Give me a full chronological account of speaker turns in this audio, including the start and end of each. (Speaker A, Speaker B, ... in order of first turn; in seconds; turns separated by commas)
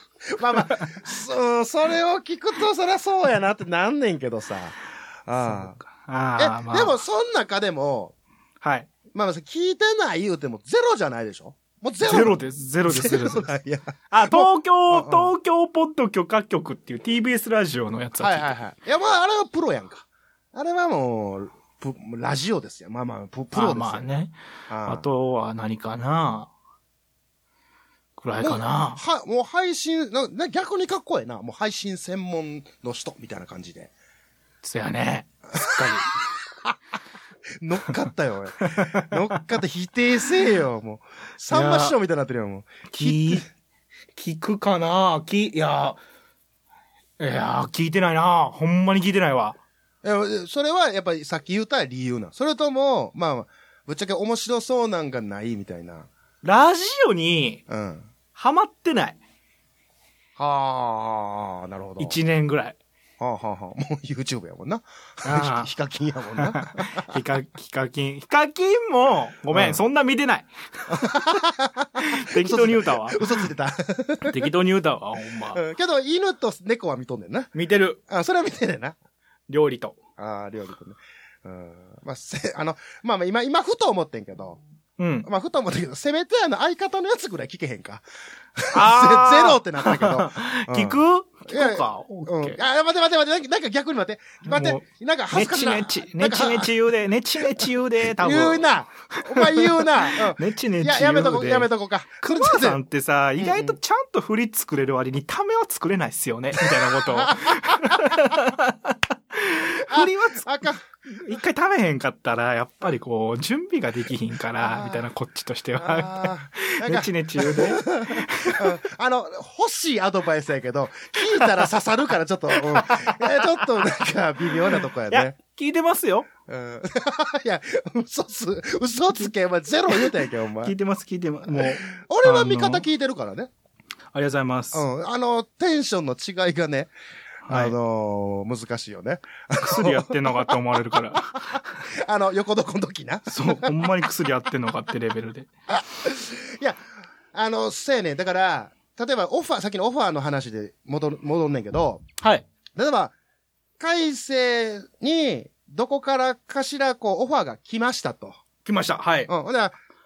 Speaker A: 0.3-5.8, Speaker B: 5.5-7.0, Speaker A: 6.4-8.2, Speaker B: 8.6-8.9, Speaker A: 9.1-15.3, Speaker B: 12.1-13.5, Speaker B: 14.1-18.6, Speaker A: 18.2-24.1, Speaker B: 23.5-26.5, Speaker A: 24.7-25.0, Speaker B: 28.2-29.0, Speaker A: 28.4-33.9, Speaker B: 34.6-36.1, Speaker A: 37.6-43.5, Speaker B: 38.6-39.4, Speaker B: 41.5-42.0, Speaker B: 42.9-43.5, Speaker B: 44.1-46.0, Speaker B: 47.2-49.6, Speaker A: 50.0-56.1, Speaker B: 56.4-57.6, Speaker A: 57.7-58.1, Speaker B: 58.4-59.2, Speaker A: 60.4-62.2, Speaker B: 62.0-62.8, Speaker A: 63.2-67.1, Speaker B: 65.2-65.7, Speaker B: 66.4-71.2, Speaker A: 69.5-69.8, Speaker A: 70.9-74.5, Speaker B: 72.0-73.4, Speaker B: 74.3-75.6, Speaker A: 75.5-77.5, Speaker B: 77.5-78.0, Speaker A: 78.1-79.0, Speaker B: 79.5-80.0, Speaker A: 80.2-84.6, Speaker B: 85.0-85.3, Speaker A: 85.2-88.0, Speaker A: 88.6-96.7, Speaker B: 88.7-92.6, Speaker B: 94.5-101.7, Speaker A: 97.6-102.8, Speaker B: 102.2-110.5, Speaker A: 103.4-103.8, Speaker A: 107.0-108.2, Speaker A: 109.9-110.8, Speaker B: 111.1-118.8, Speaker A: 114.6-115.0, Speaker A: 115.8-125.3, Speaker B: 122.5-123.6, Speaker B: 125.1-126.3, Speaker A: 126.5-130.7, Speaker B: 130.6-132.8, Speaker A: 131.5-133.5, Speaker B: 134.1-134.8, Speaker A: 134.7-136.9, Speaker B: 137.5-137.8, Speaker A: 137.5-143.9, Speaker B: 139.6-141.6, Speaker B: 143.3-145.5, Speaker A: 145.7-146.8, Speaker A: 147.3-152.0, Speaker B: 152.2-152.5, Speaker A: 152.8-153.1, Speaker A: 153.8-158.4, Speaker B: 158.7-159.3, Speaker A: 159.3-159.8